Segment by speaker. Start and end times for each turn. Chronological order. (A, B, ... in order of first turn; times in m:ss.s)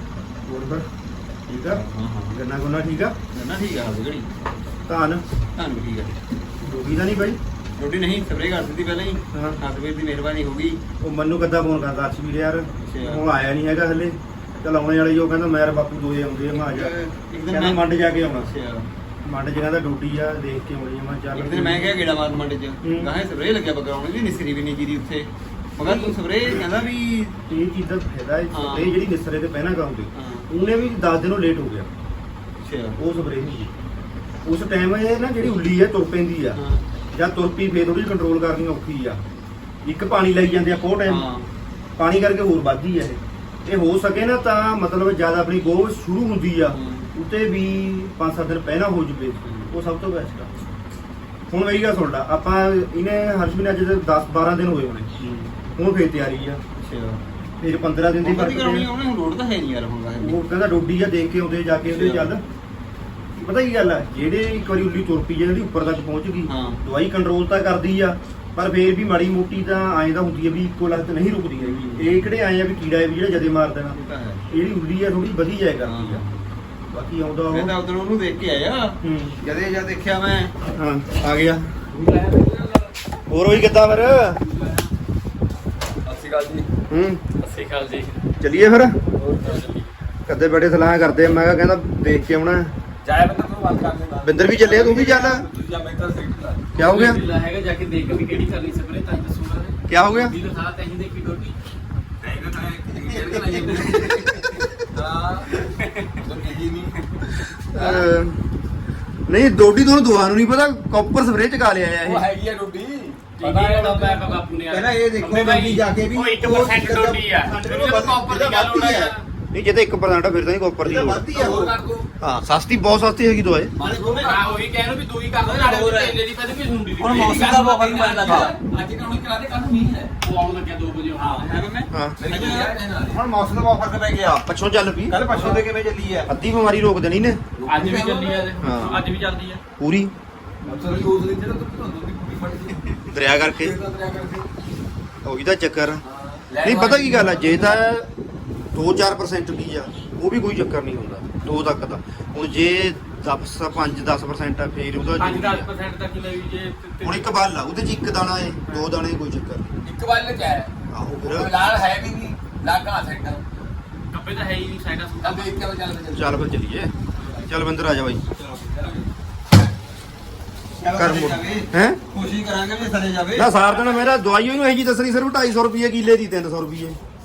0:00.4-0:00.9 A
0:01.5-0:03.2 A
0:01.7-0:02.4 B
0:03.3-0:04.3 B
0:04.9-0:05.2 A
0:05.5-0:06.1 B
0:06.7-0:07.4 A
0:07.7-0:10.8 B
0:09.3-0:09.6 A
0:11.0-0:18.5 A
0:12.8-0:13.2 B
0:16.5-0:18.9 B
0:19.2-0:22.2 A
0:21.3-0:27.3 B
0:22.8-0:23.1 A
0:25.8-0:31.9 A
0:28.5-0:29.0 B
0:30.1-0:30.5 B
0:32.6-0:33.0 B
0:33.0-0:33.7 A
0:34.4-0:36.6 A
0:36.6-0:36.8 B
0:37.1-0:39.2 A
0:39.8-0:41.2 A
0:41.0-0:41.5 B
0:42.0-0:50.5 A
0:46.7-0:47.1 B
0:49.4-0:49.7 B
0:51.5-0:55.1 A
0:55.2-0:55.5 B
0:55.7-0:56.6 A
0:56.8-0:57.2 B
0:57.6-0:58.9 A
0:58.2-1:00.4 B
1:00.2-1:02.4 A
1:01.8-1:02.3 B
1:03.4-1:14.0 A
1:06.4-1:06.8 B
1:11.6-1:12.1 B
1:13.9-1:14.4 B
1:14.5-1:16.2 A
1:15.8-1:16.5 B
1:16.9-1:17.7 A
1:17.5-1:20.5 B
1:19.0-1:19.3 A
1:20.7-1:21.7 A
1:21.9-1:23.0 C
1:23.3-1:24.4 A
1:24.4-1:24.9 D
1:26.0-1:26.7 C
1:26.9-1:27.2 A
1:27.4-1:28.0 D
1:27.8-1:28.2 C
1:28.4-1:29.0 A
1:29.2-1:29.9 C
1:30.3-1:32.7 A
1:33.0-1:36.8 C
1:34.2-1:35.4 A
1:36.7-1:37.2 A
1:36.8-1:41.6 D
1:39.9-1:40.3 A
1:42.2-1:47.2 C
1:43.2-1:44.5 D
1:43.3-1:44.2 B
1:45.6-1:46.3 D
1:47.7-1:48.4 A
1:47.7-1:48.1 D
1:49.3-1:52.2 A
1:52.0-1:54.4 C
1:53.4-1:59.3 D
1:54.7-1:59.2 B
1:59.5-2:01.3 A
2:00.8-2:01.8 B
2:01.3-2:02.1 C
2:02.2-2:03.7 A
2:03.8-2:04.3 C
2:03.8-2:04.5 B
2:04.1-2:08.5 D
2:05.4-2:06.2 B
2:07.0-2:08.6 B
2:07.0-2:10.1 C
2:10.2-2:11.8 D
2:11.2-2:14.5 B
2:11.9-2:12.2 A
2:12.2-2:13.2 C
2:14.3-2:15.2 A
2:15.1-2:16.3 B
2:16.3-2:17.4 A
2:17.6-2:18.6 C
2:17.6-2:19.6 D
2:18.6-2:19.0 A
2:19.8-2:20.1 A
2:20.6-2:24.5 C
2:20.7-2:21.0 D
2:23.1-2:23.8 A
2:25.2-2:26.0 A
2:26.0-2:27.7 C
2:26.6-2:28.1 A
2:28.7-2:35.7 A
2:35.2-2:37.4 D
2:37.0-2:39.7 A
2:39.8-2:43.4 C
2:40.9-2:41.6 A
2:44.1-2:45.5 D
2:45.2-2:46.4 C
2:46.1-2:46.9 A
2:47.2-2:47.4 D
2:47.4-2:48.2 A
2:48.4-2:48.7 B
2:48.7-2:49.1 C
2:50.8-2:53.5 B
2:51.0-2:52.0 A
2:53.3-2:57.0 A